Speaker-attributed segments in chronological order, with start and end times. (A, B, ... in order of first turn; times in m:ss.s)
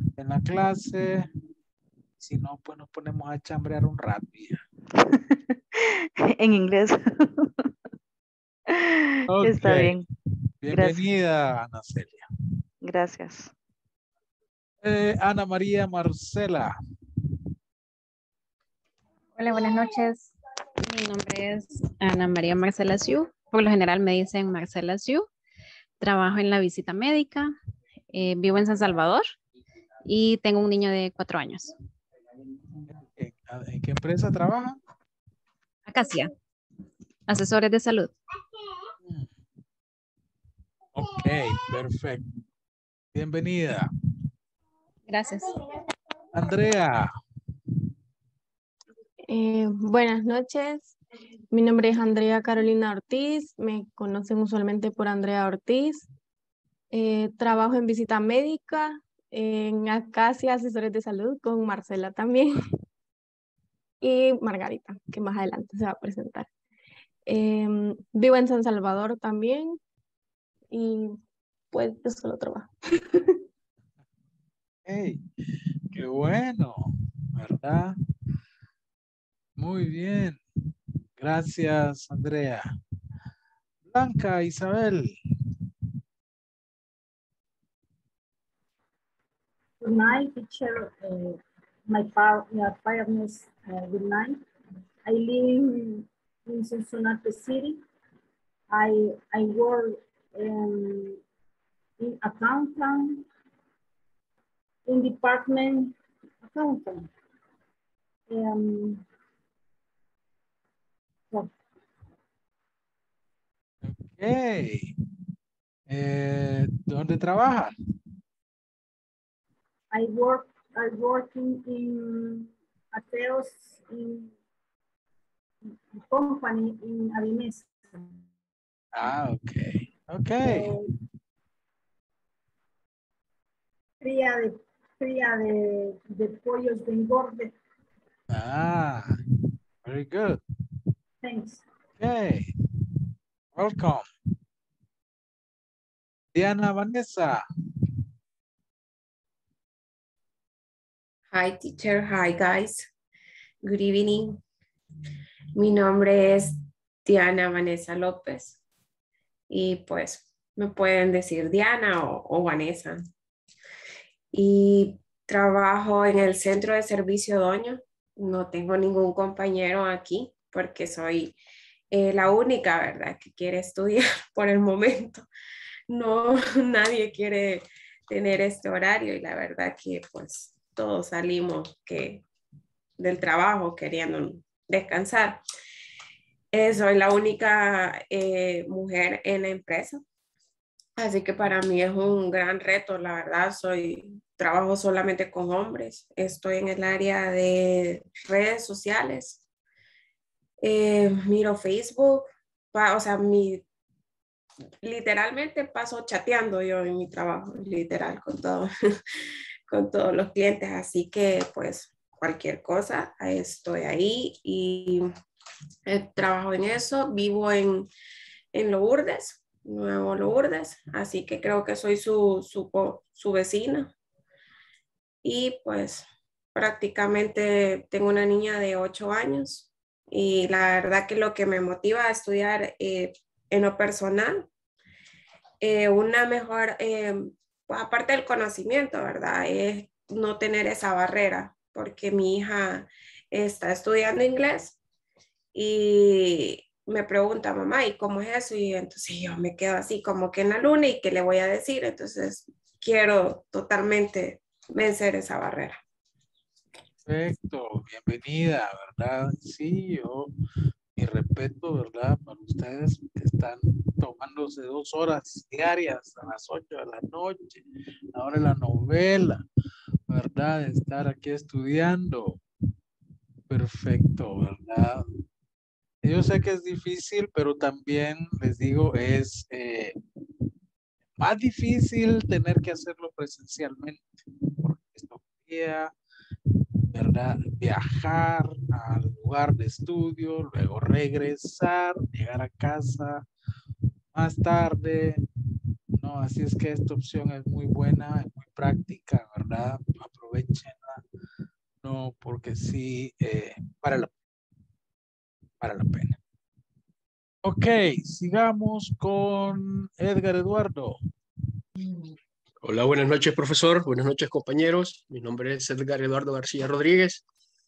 0:00.2-0:01.3 A
0:02.2-0:04.6 A
0:05.0-0:07.7 B
0:08.7-0:10.0 B
0:09.3-0:10.0 A
0:10.6-0:12.2 A
0:10.7-0:11.0 B
0:12.8-0:13.5 B
0:14.8-0:16.7 A
0:19.4-0:20.3 C
0:20.8-0:25.3 C
0:26.0-0:27.5 C
0:28.1-0:29.3 C
0:30.0-0:31.7 C
0:32.8-0:34.8 A
0:35.9-0:36.3 C
0:37.3-0:38.1 C
0:39.0-0:39.3 A
0:40.9-0:42.2 A
0:43.1-0:43.9 A
0:45.1-0:45.5 C
0:46.3-0:47.1 A
0:49.3-0:50.9 D
0:51.5-0:56.1 D
0:56.9-1:02.6 D
1:04.0-1:06.5 D
1:07.3-1:09.8 D
1:10.7-1:11.2 D
1:11.7-1:12.7 D
1:14.8-1:15.2 A
1:15.9-1:17.9 A
1:19.6-1:20.4 A
1:21.2-1:22.6 A
1:23.9-1:25.1 A
1:29.8-1:34.4 E
1:35.0-1:37.8 E
1:38.7-1:41.2 E
1:42.0-1:43.2 E
1:44.9-1:45.9 E
1:46.4-1:47.1 E
1:48.3-1:49.0 E
1:53.8-1:54.9 A
1:55.9-1:57.7 A
1:59.9-2:04.3 E
2:05.9-2:07.8 E
2:08.9-2:10.8 A
2:10.4-2:10.8 E
2:14.0-2:17.5 E
2:18.3-2:19.1 A
2:19.8-2:20.4 A
2:21.2-2:21.6 E
2:22.0-2:22.5 A
2:23.5-2:24.1 A
2:26.3-2:27.4 A
2:31.3-2:32.9 F
2:33.6-2:34.4 F
2:35.5-2:36.5 F
2:37.0-2:38.6 F
2:39.5-2:43.0 F
2:44.3-2:51.4 F
2:51.9-2:55.2 F
2:55.9-3:02.2 F
3:03.0-3:05.4 F
3:06.5-3:10.0 F
3:11.0-3:19.4 F
3:20.6-3:23.6 F
3:24.8-3:28.7 F
3:29.7-3:35.0 F
3:35.8-3:37.9 F
3:38.5-3:43.9 F
3:45.2-3:54.4 F
3:55.6-4:04.8 F
4:05.5-4:15.8 F
4:17.0-4:20.3 A
4:21.0-4:27.6 A
4:28.1-4:29.4 A
4:30.1-4:32.4 A
4:33.5-4:35.0 A
4:36.0-4:40.0 A
4:41.2-4:45.9 A
4:46.9-4:53.2 A
4:54.1-4:55.2 A
4:56.0-5:01.0 A
5:01.8-5:04.1 A
5:05.6-5:06.2 A
5:07.4-5:11.0 A
5:12.6-5:17.2 G